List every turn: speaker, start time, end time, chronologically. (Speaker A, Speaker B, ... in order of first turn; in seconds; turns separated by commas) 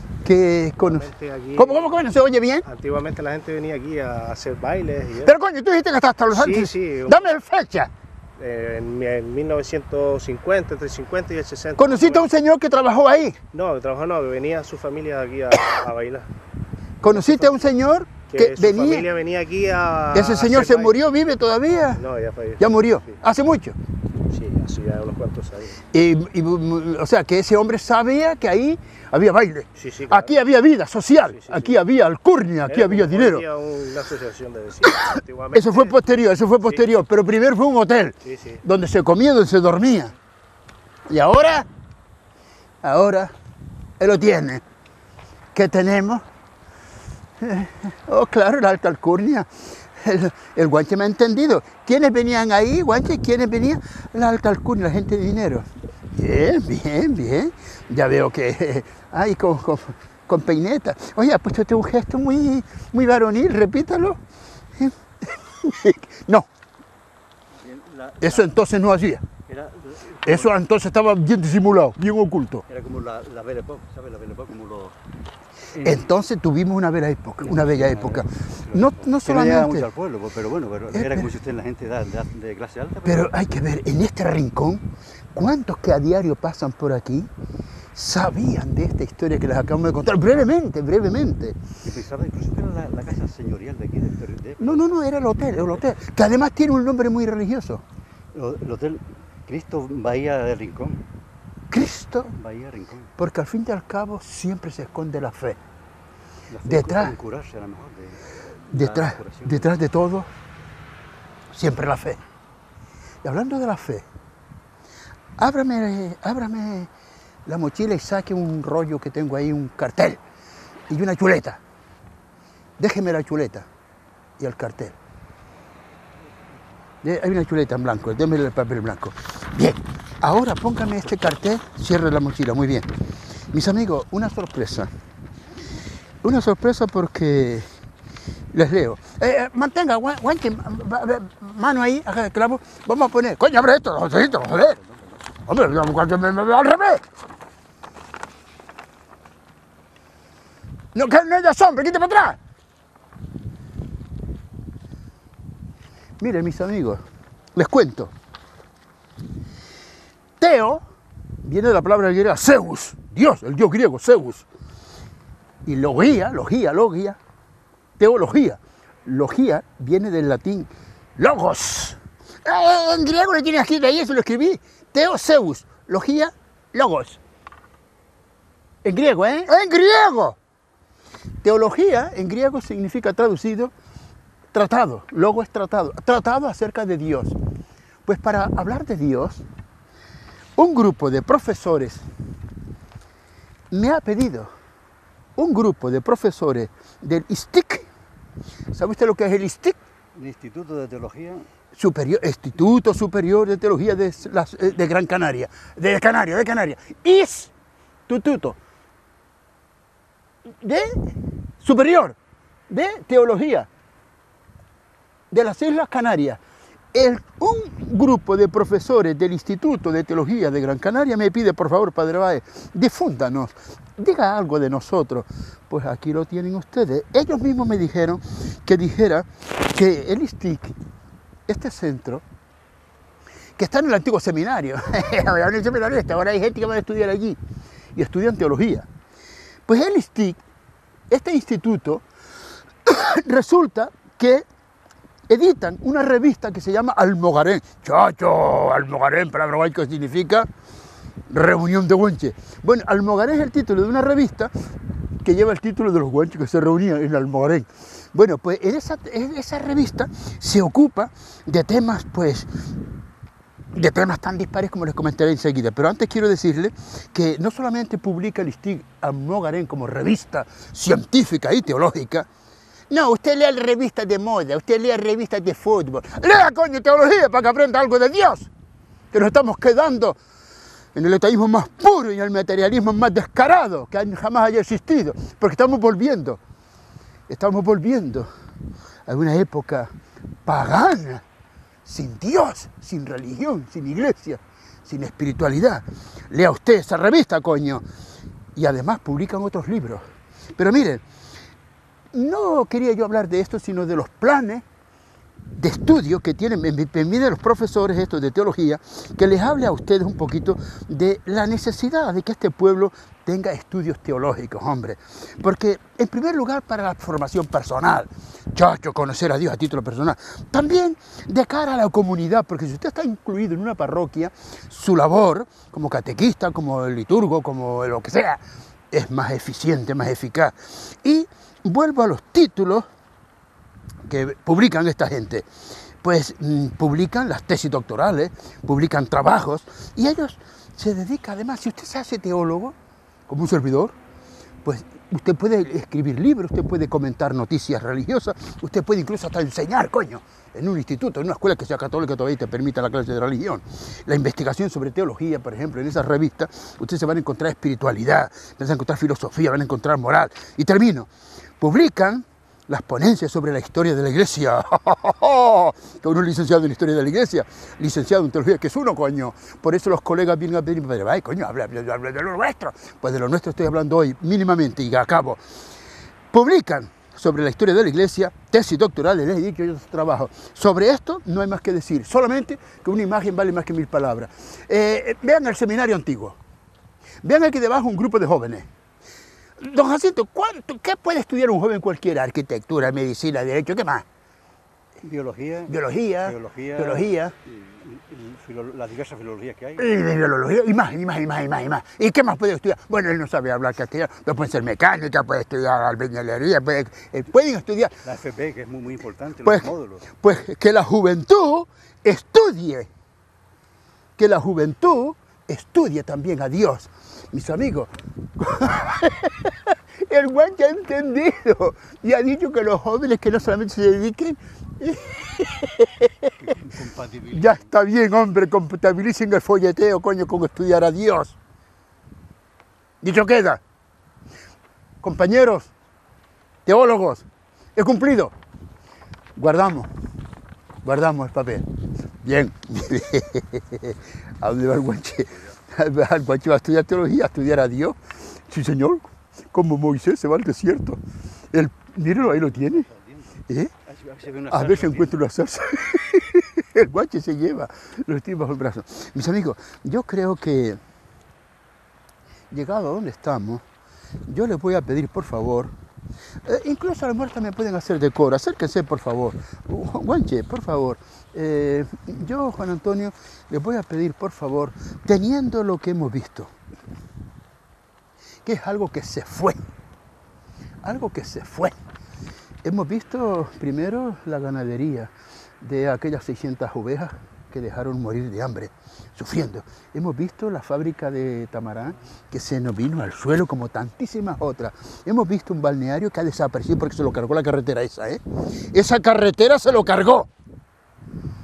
Speaker A: 0.2-2.7, Speaker B: 0.8-2.0, Speaker B: 2.6-5.3, Speaker A: 5.2-7.9, Speaker B: 6.3-7.2, Speaker B: 8.4-12.3, Speaker A: 11.8-13.4, Speaker B: 13.5-16.3, Speaker A: 17.0-19.1, Speaker B: 17.0-17.5, Speaker B: 18.3-21.0, Speaker A: 20.1-22.0, Speaker B: 22.0-23.2, Speaker A: 22.6-23.8, Speaker B: 24.3-25.8, Speaker A: 25.9-33.5, Speaker B: 29.8-30.4, Speaker B: 31.3-31.8, Speaker B: 32.7-36.0, Speaker A: 35.5-40.1, Speaker B: 38.2-38.6, Speaker A: 41.1-41.7, Speaker A: 42.8-43.3, Speaker A: 44.0-44.6, Speaker A: 45.5-46.2, Speaker A: 47.4-64.2, Speaker A: 64.8-66.5, Speaker C: 67.6-68.6, Speaker A: 68.2-69.2, Speaker C: 69.5-70.6, Speaker A: 70.2-72.6, Speaker C: 72.7-75.0, Speaker C: 75.7-76.1, Speaker A: 75.8-79.9, Speaker C: 77.4-83.3, Speaker A: 80.9-81.3, Speaker A: 83.1-87.3, Speaker A: 88.0-91.6, Speaker C: 91.8-94.9, Speaker A: 94.6-97.8, Speaker C: 98.3-101.0, Speaker A: 101.7-102.3, Speaker C: 102.3-103.1, Speaker A: 103.2-105.6, Speaker C: 106.5-109.8, Speaker A: 106.7-107.2, Speaker A: 108.7-110.3, Speaker A: 111.5-112.2, Speaker A: 113.2-114.1, Speaker A: 115.4-116.9, Speaker A: 117.5-120.2, Speaker A: 120.9-121.6, Speaker A: 122.8-123.7, Speaker A: 124.4-125.0, Speaker A: 127.0-132.9, Speaker A: 133.5-134.9, Speaker A: 136.2-137.7, Speaker A: 138.5-144.8, Speaker C: 144.1-145.2, Speaker A: 145.5-147.0, Speaker A: 150.9-152.4, Speaker A: 156.2-157.0, Speaker A: 157.6-158.1, Speaker A: 160.4-160.8, Speaker A: 161.4-164.5, Speaker A: 165.7-167.2, Speaker A: 168.0-177.2, Speaker A: 178.8-180.4, Speaker A: 181.4-183.7, Speaker A: 184.5-187.4, Speaker A: 188.1-189.4, Speaker A: 190.6-192.1, Speaker A: 193.7-194.5, Speaker A: 195.4-197.9, Speaker A: 198.7-199.8, Speaker C: 200.2-201.5, Speaker A: 201.8-207.5, Speaker A: 208.1-208.6, Speaker A: 210.5-212.2, Speaker A: 212.7-213.7, Speaker A: 215.3-216.4, Speaker A: 216.9-230.8, Speaker A: 231.5-232.2, Speaker A: 233.6-237.4, Speaker A: 237.9-238.9, Speaker A: 239.7-240.4, Speaker A: 241.1-242.0, Speaker A: 242.8-244.4, Speaker A: 245.3-250.5, Speaker A: 251.3-254.5, Speaker A: 255.2-262.5, Speaker A: 263.7-272.3, Speaker A: 272.9-278.5, Speaker A: 279.1-280.2, Speaker A: 280.9-286.4, Speaker A: 287.3-288.3, Speaker A: 289.1-289.9, Speaker A: 290.4-291.2, Speaker A: 291.9-297.8, Speaker A: 298.6-300.1, Speaker A: 300.6-301.0, Speaker A: 302.1-304.6, Speaker A: 305.5-332.9, Speaker A: 334.1-335.5, Speaker A: 336.0-342.8, Speaker A: 343.3-343.9, Speaker A: 344.6-361.1, Speaker A: 361.6-375.4, Speaker A: 376.3-386.4, Speaker A: 387.2-388.7, Speaker A: 389.6-394.1, Speaker C: 395.0-399.9, Speaker A: 395.7-397.4, Speaker A: 399.8-407.9, Speaker C: 408.0-410.1, Speaker A: 409.4-412.9, Speaker A: 414.2-426.3, Speaker C: 426.4-427.8, Speaker A: 427.3-431.4, Speaker A: 433.0-433.6, Speaker A: 435.0-435.7, Speaker A: 436.6-438.3, Speaker A: 439.4-439.9, Speaker A: 440.8-451.0, Speaker A: 451.5-452.9, Speaker C: 452.1-455.2, Speaker A: 454.5-460.8, Speaker A: 462.5-463.6, Speaker A: 464.3-465.7, Speaker A: 466.4-476.5, Speaker A: 478.4-479.6, Speaker A: 480.8-481.8, Speaker A: 482.6-500.3